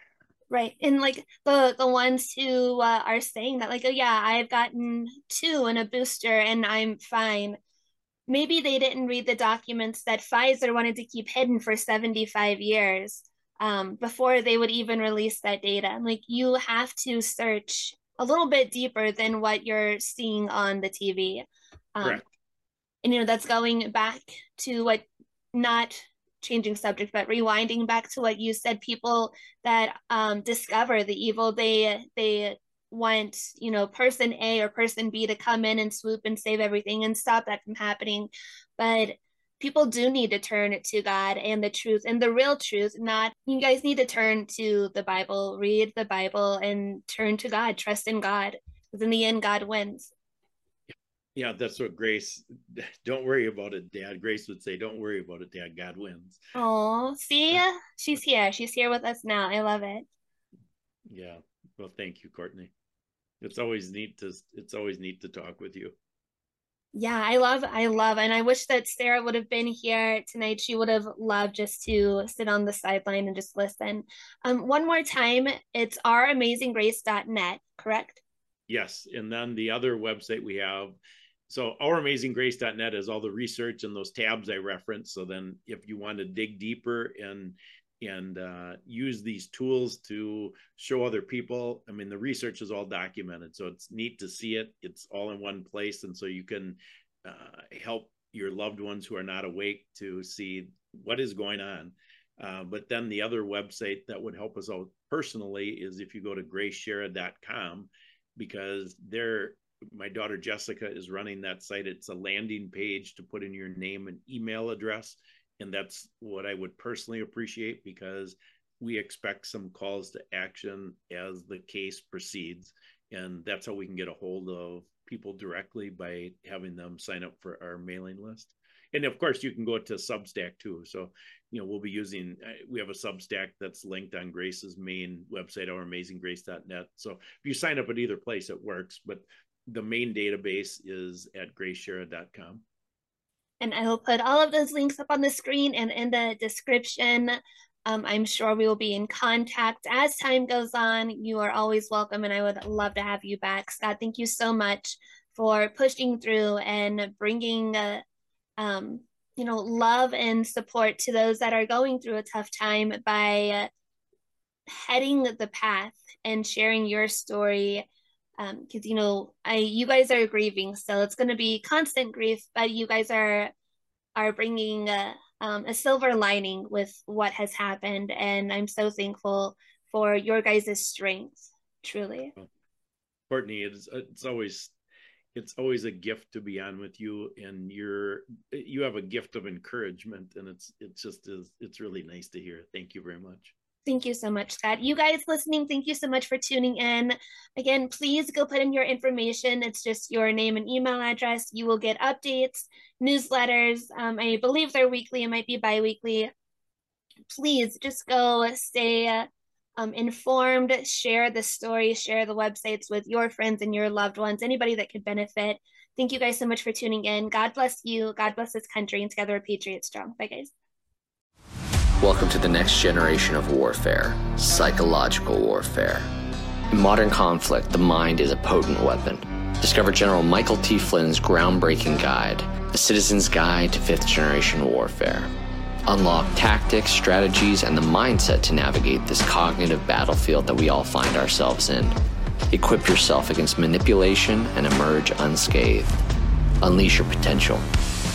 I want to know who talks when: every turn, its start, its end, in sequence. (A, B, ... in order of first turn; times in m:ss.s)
0:00.5-0:07.6 A
0:08.3-0:22.2 A
0:23.0-0:50.1 A
0:51.4-0:56.4 B
0:56.6-1:00.0 A
1:01.1-1:02.7 B
1:03.4-1:06.0 B
1:07.0-1:18.2 A
1:18.7-1:21.0 B
1:21.5-2:22.6 B
2:23.6-2:38.0 A
2:38.6-2:43.7 A
2:44.7-2:47.9 A
2:48.4-2:53.5 A
2:54.2-3:02.3 A
3:03.3-3:04.7 B
3:05.3-3:13.5 B
3:13.9-3:26.3 A
3:27.3-3:40.5 A
3:42.0-3:46.1 C
3:46.7-3:55.3 C
3:55.9-4:02.0 C
4:02.5-4:06.0 C
4:06.6-4:07.7 C